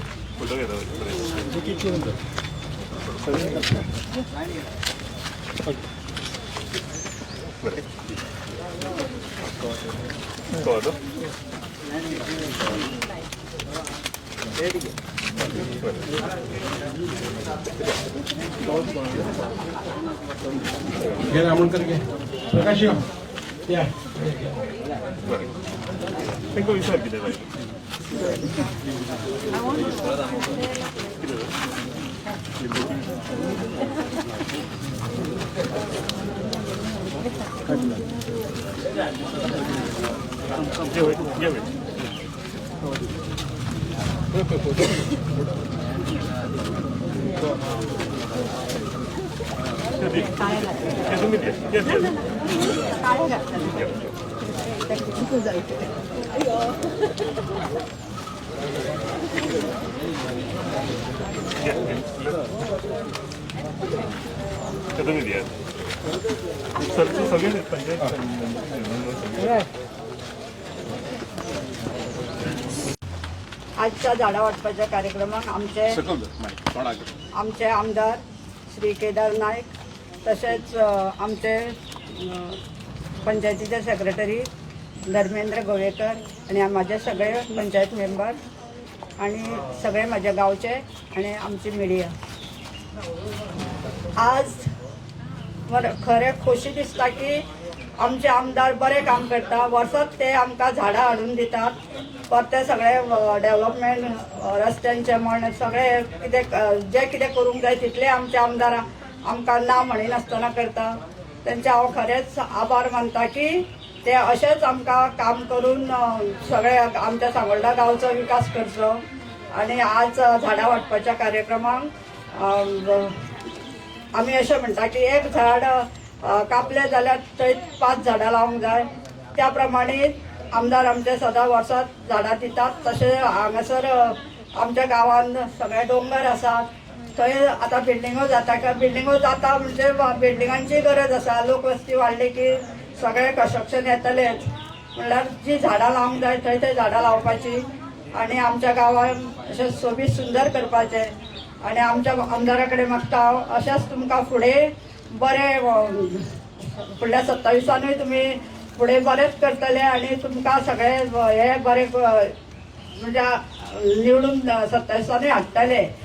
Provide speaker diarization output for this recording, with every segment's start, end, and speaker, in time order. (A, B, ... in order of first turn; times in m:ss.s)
0:00.4-0:01.5 A
0:10.6-0:11.0 A
0:21.3-0:23.0 B
0:23.7-0:24.2 B
0:26.6-0:27.4 A
0:51.2-0:51.7 A
0:53.0-0:53.6 C
0:55.0-0:55.4 C
1:05.0-1:05.5 A
1:06.8-1:09.6 A
1:13.8-1:16.0 C
1:15.9-1:17.1 B
1:17.4-1:22.6 C
1:23.2-1:24.5 C
1:25.1-1:28.4 C
1:29.2-1:32.1 C
1:34.2-1:34.7 C
1:35.7-1:37.4 C
1:38.0-1:41.8 C
1:42.3-1:59.0 C
1:59.5-2:03.2 C
2:04.2-2:27.6 C
2:28.1-2:31.1 C
2:31.6-2:42.3 C
2:43.0-2:45.9 C